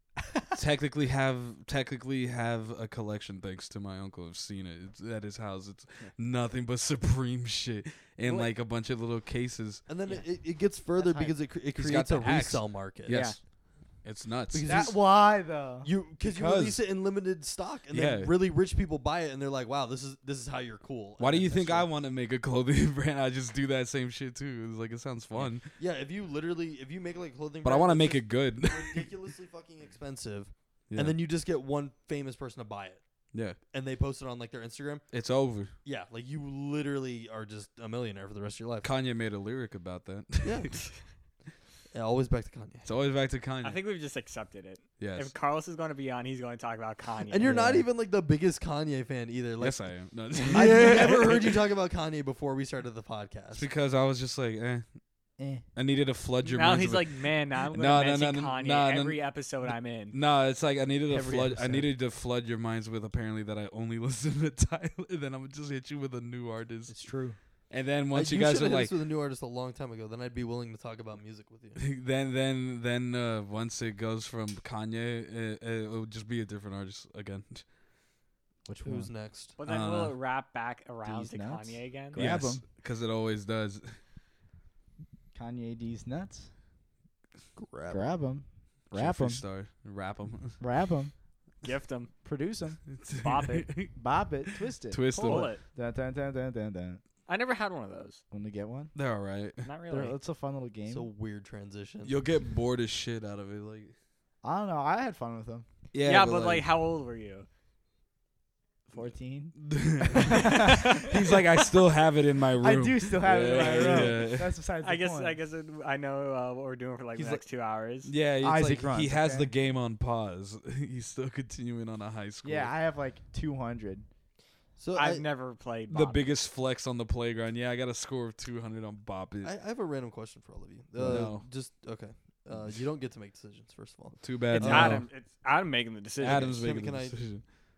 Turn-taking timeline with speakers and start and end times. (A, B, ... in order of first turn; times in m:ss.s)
0:00.5-0:09.8 A
0:08.2-0:08.5 B
0:09.9-0:13.3 C
0:10.9-0:11.4 D
0:11.7-0:14.6 A
0:13.1-0:13.4 B
0:14.5-0:21.9 C
0:14.6-0:15.9 D
0:16.3-0:16.8 A
0:17.9-0:18.3 A
0:21.2-0:25.7 A
0:25.4-0:33.0 C
0:27.6-0:29.1 A
0:30.9-0:31.2 A
0:33.3-0:33.6 A
0:33.6-0:35.1 C
0:35.1-0:35.7 A
0:35.8-0:38.9 C
0:38.8-0:40.8 A
0:40.4-0:40.9 C
0:41.9-0:42.9 C
0:42.8-0:43.8 A
0:43.6-0:47.6 B
0:45.0-0:45.3 A
0:47.3-0:53.7 C
0:47.4-0:47.8 D
0:49.6-0:51.6 A
0:53.5-0:54.8 A
0:55.4-0:55.6 D
0:55.7-1:06.9 A
0:56.4-1:00.2 B
1:01.1-1:01.9 D
1:06.9-1:07.4 D
1:07.7-1:08.9 A
1:08.1-1:11.8 C
1:11.8-1:17.6 A
1:18.6-1:19.1 D
1:18.8-1:19.6 C
1:19.6-1:22.3 B
1:19.6-1:20.2 A
1:21.0-1:22.6 D
1:22.1-1:24.0 A
1:25.3-1:26.5 D
1:27.6-1:28.1 C
1:27.9-1:29.4 D
1:28.9-1:30.6 A
1:30.6-1:31.1 D
1:31.6-1:32.1 B
1:32.2-1:32.8 D
1:33.0-1:34.0 A
1:33.2-1:33.7 B
1:34.0-1:37.0 D
1:34.8-1:35.5 A
1:35.2-1:35.6 B
1:37.3-1:38.2 B
1:38.3-1:38.9 D
1:38.9-1:39.7 A
1:39.6-1:40.2 B
1:39.9-1:41.1 D
1:40.9-1:42.2 C
1:42.0-1:43.9 A
1:44.4-1:45.6 D
1:45.9-1:46.7 A
1:46.0-1:47.5 B
1:48.9-1:51.0 D
1:49.6-1:54.6 A
1:50.7-1:51.0 B
1:52.6-1:55.4 D
1:53.5-1:54.2 B
1:54.8-1:58.1 B
1:57.2-1:57.4 A
1:58.0-2:02.7 A
1:58.4-1:59.5 D
2:02.4-2:04.1 D
2:04.8-2:05.2 C
2:04.9-2:06.2 B
2:05.9-2:09.5 A
2:09.4-2:15.0 C
2:11.0-2:11.3 D
2:11.0-2:11.5 A
2:12.5-2:12.8 A
2:14.2-2:15.1 A
2:14.5-2:16.7 B
2:16.2-2:17.4 A
2:16.6-2:17.3 C